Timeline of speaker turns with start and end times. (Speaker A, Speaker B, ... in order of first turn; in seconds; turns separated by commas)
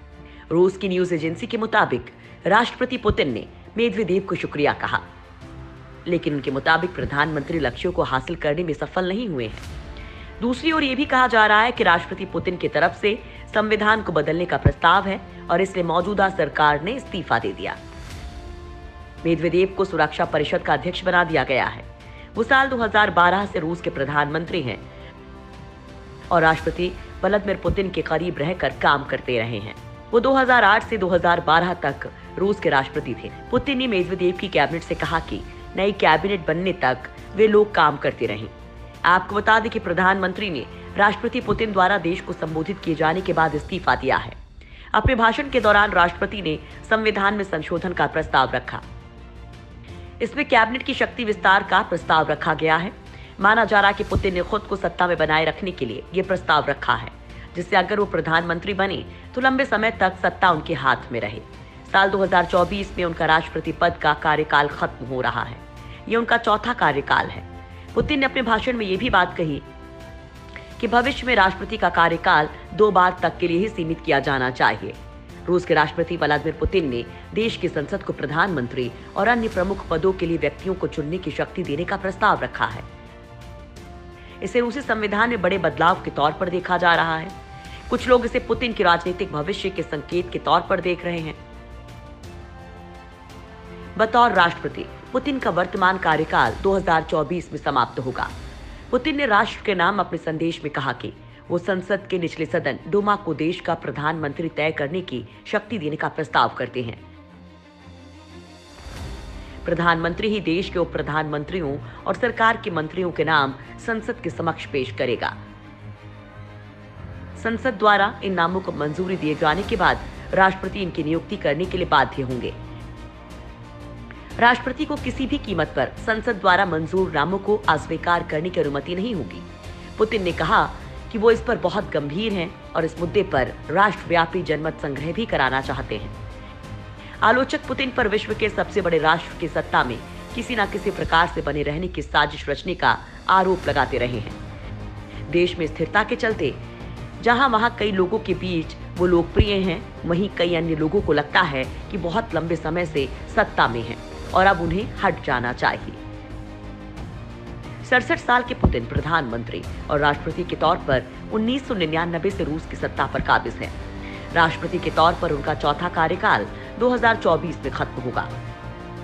Speaker A: 0.5-5.0, Speaker A: 6.1-9.7, Speaker A: 10.4-17.8, Speaker A: 19.2-24.8, Speaker A: 26.3-38.5, Speaker A: 39.0-44.4, Speaker A: 44.9-48.8, Speaker A: 50.2-69.6, Speaker A: 70.8-82.9, Speaker A: 84.4-87.3, Speaker A: 87.9-91.4, Speaker A: 94.0-98.3, Speaker A: 98.9-107.0, Speaker A: 109.6-115.4, Speaker A: 117.4-122.5, Speaker A: 124.4-136.2, Speaker A: 137.2-144.4, Speaker A: 145.3-146.6, Speaker A: 147.2-156.0, Speaker A: 157.8-163.7, Speaker A: 164.3-168.3